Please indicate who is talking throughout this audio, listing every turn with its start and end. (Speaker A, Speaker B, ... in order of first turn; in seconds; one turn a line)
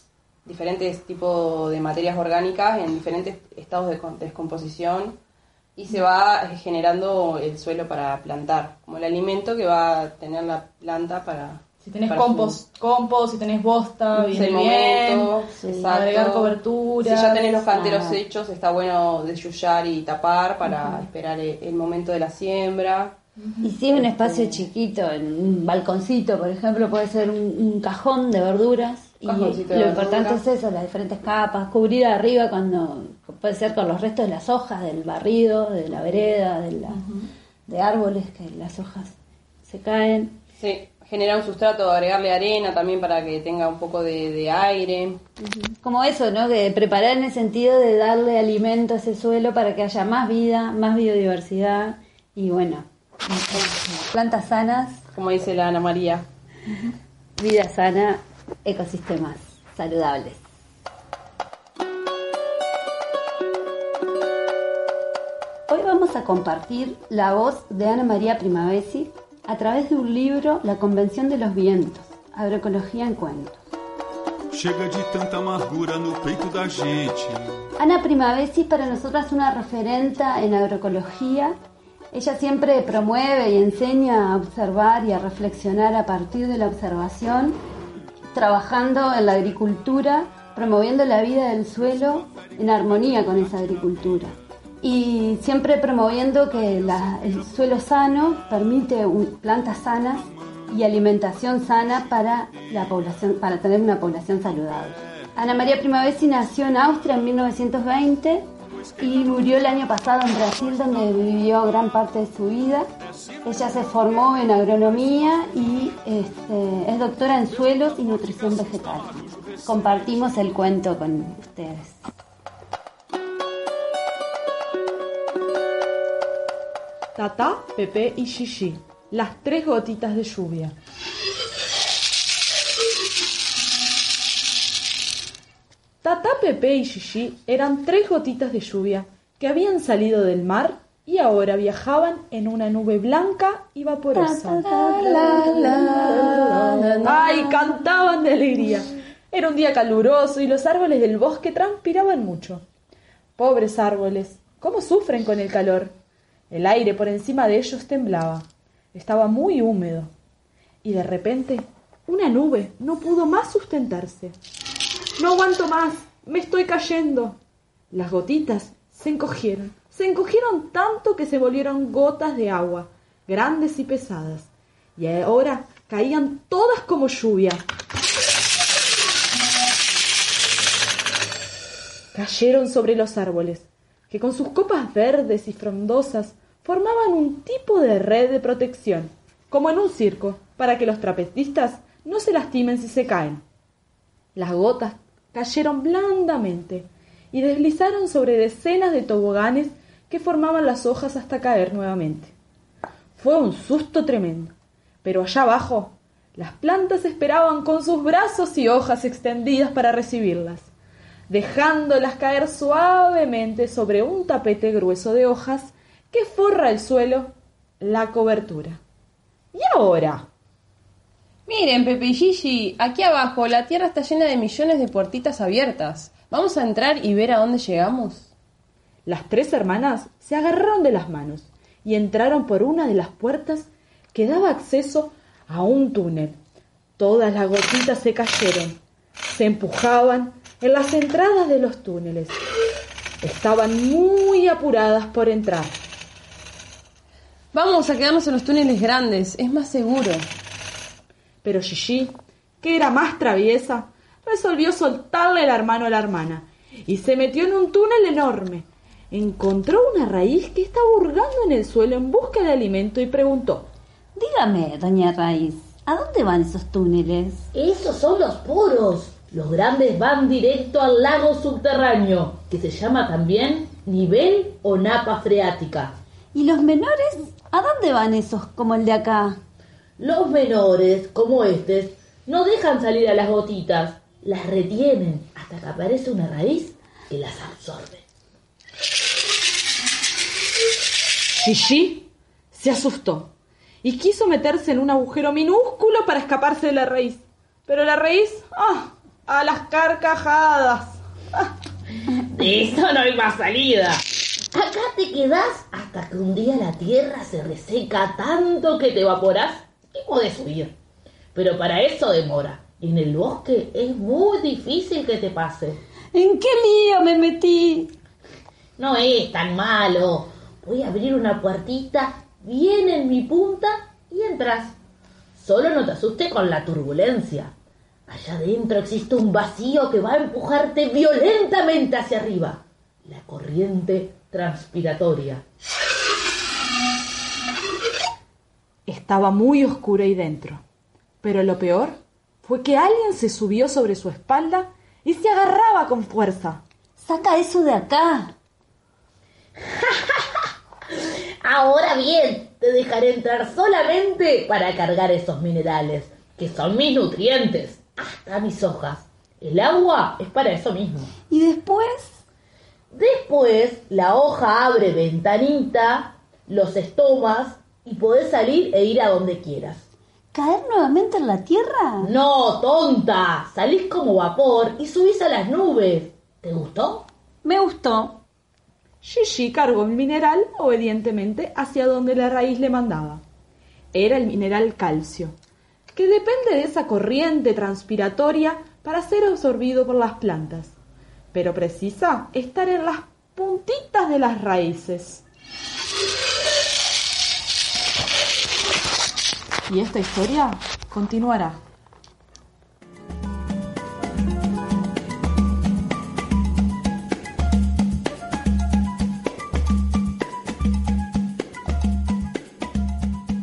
Speaker A: 0.4-5.2
Speaker A: 5.8-12.6
Speaker B: 11.8-15.3
Speaker A: 14.3-23.2
Speaker C: 15.5-16.0
Speaker B: 15.8-17.8
Speaker C: 17.7-18.2
Speaker B: 23.4-23.7
Speaker C: 23.6-37.0
Speaker A: 24.1-24.4
Speaker A: 29.2-30.4
Speaker C: 37.7-39.1
Speaker C: 39.6-40.4
Speaker A: 40.6-45.2
Speaker C: 45.4-55.0
Speaker A: 55.1-56.3
Speaker C: 56.8-60.4
Speaker C: 65.7-73.6
Speaker D: 74.5-77.5
Speaker C: 77.8-81.5
Speaker C: 82.1-87.6
Speaker C: 88.3-112.9
Speaker C: 113.4-122.1
Speaker E: 127.2-130.7
Speaker E: 136.0-145.4
Speaker C: 144.1-147.7
Speaker E: 147.0-152.6
Speaker E: 153.4-155.9
Speaker E: 156.5-160.1
Speaker E: 160.8-164.3
Speaker E: 165.2-167.4
Speaker E: 167.9-177.6
Speaker E: 182.1-193.4
Speaker E: 194.3-202.3
Speaker E: 203.2-204.5
Speaker E: 205.0-210.7
Speaker E: 211.3-218.8
Speaker E: 219.5-220.2
Speaker A: 221.5-228.3
Speaker E: 229.1-236.4
Speaker E: 237.0-242.4
Speaker E: 243.2-245.8
Speaker A: 247.5-250.3
Speaker E: 251.4-263.7
Speaker C: 264.1-267.4
Speaker F: 267.5-275.9
Speaker C: 276.3-279.4
Speaker F: 280.0-288.0
Speaker E: 291.4-293.3
Speaker E: 293.8-301.5
Speaker F: 302.3-310.7
Speaker F: 311.3-315.8
Speaker C: 316.1-317.9
Speaker F: 318.8-324.7
Speaker F: 325.4-327.5
Speaker F: 328.1-335.4
Speaker E: 338.9-340.6
Speaker E: 341.2-346.6
Speaker C: 347.0-348.3
Speaker F: 351.4-361.1
Speaker C: 361.3-362.2
Speaker F: 362.9-369.8
Speaker C: 370.3-372.1
Speaker F: 372.1-377.1
Speaker C: 377.4-378.2
Speaker E: 379.0-383.2
Speaker E: 383.9-385.4
Speaker E: 385.9-390.7
Speaker E: 391.3-395.2
Speaker E: 399.7-401.6